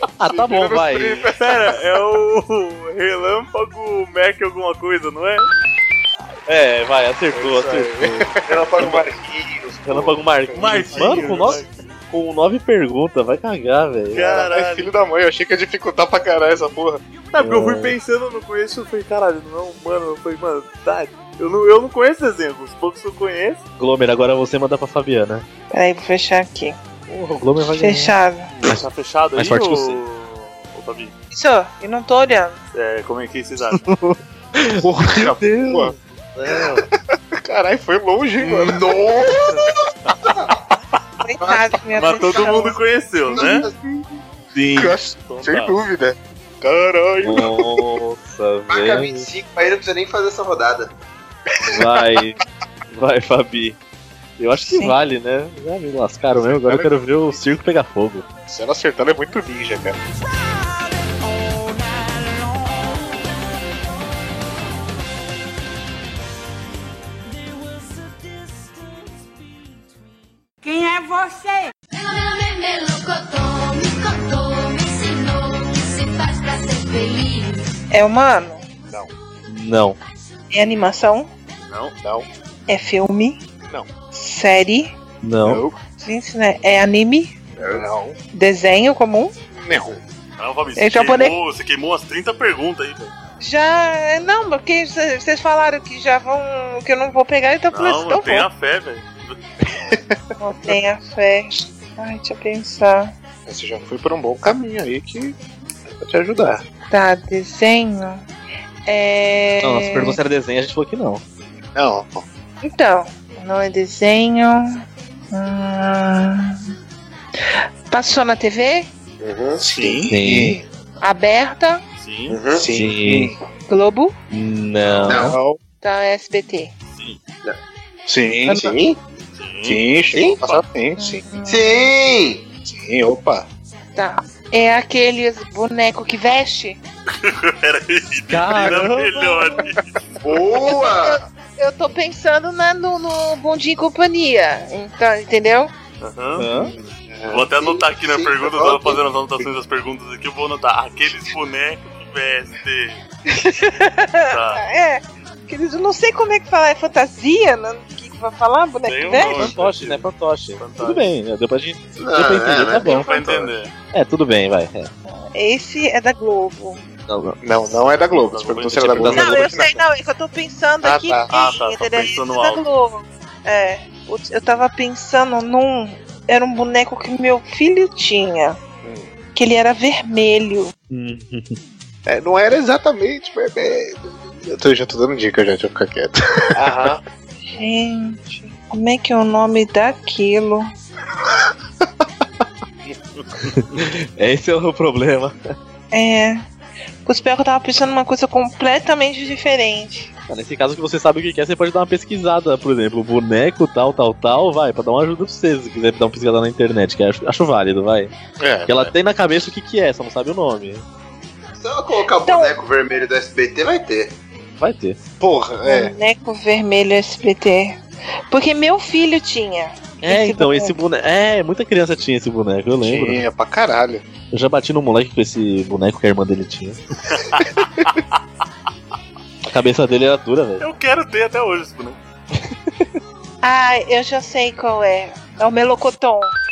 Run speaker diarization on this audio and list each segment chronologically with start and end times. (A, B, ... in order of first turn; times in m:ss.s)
0:00.2-0:01.3 A
0:00.2-0:01.7 B
0:01.4-0:05.5 C
0:06.5-0:08.3 A
0:07.3-0:09.1 B
0:08.4-0:10.2 D
0:09.8-0:14.3 A
0:10.5-0:11.6 B
0:10.6-0:11.9 C
0:14.1-0:14.9 C
0:14.2-0:17.0 B
0:17.3-0:23.6 C
0:17.4-0:18.0 A
0:23.8-0:25.4 A
0:25.7-0:26.8 E
0:27.1-0:28.8 A
0:27.8-0:28.5 E
0:28.6-0:31.1 C
0:29.4-0:30.0 A
0:31.3-0:32.6 E
0:32.7-0:33.9 C
0:33.8-0:36.8 A
0:34.8-0:35.9 B
0:37.4-0:39.7 B
0:38.4-0:39.7 D
0:40.2-0:40.5 D
0:41.2-0:42.8 E
0:42.0-0:43.6 C
0:43.3-0:44.2 B
0:44.5-0:45.0 A
0:44.7-0:48.0 B
0:45.2-0:45.8 C
0:47.2-0:49.3 A
0:48.7-0:50.9 D
0:51.6-0:52.2 B
0:51.7-0:52.4 A
0:52.9-0:53.8 A
0:54.4-0:58.2 A
0:54.7-0:55.0 E
0:56.3-0:57.5 B
0:58.5-1:00.0 B
1:10.6-1:17.7 F
1:17.9-1:18.6 E
1:19.5-1:20.0 A
1:20.5-1:21.3 E
1:21.6-1:21.9 C
1:22.7-1:23.4 E
1:24.1-1:24.9 E
1:25.2-1:25.6 A
1:25.4-1:25.8 B
1:26.0-1:27.4 E
1:27.6-1:27.9 D
1:27.6-1:28.2 B
1:28.3-1:29.3 E
1:29.5-1:30.0 B
1:30.4-1:33.1 C
1:30.8-1:31.4 E
1:33.4-1:38.5 E
1:37.7-1:39.4 C
1:39.9-1:40.7 B
1:40.4-1:43.1 E
1:43.4-1:45.4 B
1:45.9-1:46.6 B
1:46.9-1:48.2 E
1:48.8-1:50.2 E
1:49.6-1:51.2 A
1:51.7-1:52.2 B
1:52.6-1:56.7 E
1:57.4-1:58.9 E
1:59.2-2:00.0 D
1:59.6-2:00.6 B
1:59.7-2:00.1 C
2:00.1-2:00.6 A
2:01.0-2:01.8 E
2:02.0-2:02.4 C
2:02.3-2:02.7 D
2:02.5-2:03.4 B
2:02.7-2:03.3 A
2:03.7-2:04.1 E
2:04.3-2:05.4 A
2:04.8-2:05.2 C
2:05.1-2:05.4 D
2:05.1-2:05.6 B
2:05.8-2:06.7 E
2:08.1-2:08.7 B
2:08.5-2:09.0 D
2:09.3-2:09.8 C
2:09.6-2:11.2 B
2:10.1-2:10.4 D
2:11.0-2:11.9 E
2:11.4-2:12.5 D
2:12.6-2:13.5 B
2:13.9-2:16.8 E
2:17.2-2:19.9 C
2:18.3-2:19.3 A
2:20.2-2:21.2 D
2:20.7-2:25.7 E
2:26.0-2:26.4 C
2:26.4-2:26.7 A
2:26.5-2:27.5 B
2:27.3-2:33.0 C
2:27.6-2:29.0 D
2:33.3-2:39.5 E
2:34.3-2:34.6 C
2:38.8-2:41.1 C
2:39.1-2:43.0 A
2:42.0-2:43.5 D
2:42.8-2:43.7 C
2:43.9-2:44.9 A
2:45.0-2:46.8 E
2:47.1-2:47.4 A
2:47.4-2:49.8 B
2:48.1-2:49.3 C
2:48.7-2:49.7 A
2:49.1-2:58.6 E
2:50.8-2:51.3 B
2:51.3-2:52.6 C
2:58.8-2:59.1 B
2:59.3-3:00.7 E
3:00.9-3:01.6 A
3:02.0-3:07.0 B
3:07.4-3:10.7 E
3:13.2-3:13.8 C
3:13.8-3:15.3 A
3:15.9-3:16.4 E
3:17.0-3:20.1 E
3:20.3-3:28.1 A
3:28.4-3:28.9 B
3:28.7-3:30.8 A
3:31.6-3:34.2 D
3:32.1-3:32.6 E
3:34.6-3:35.0 A
3:35.2-3:35.9 B
3:35.6-3:40.8 E
3:40.0-3:43.2 A
3:42.8-3:44.0 B
3:44.3-3:46.8 A
3:47.1-3:47.5 C
3:49.5-3:50.6 A
3:50.6-3:52.0 C
3:52.3-3:52.9 A
3:53.4-3:56.3 E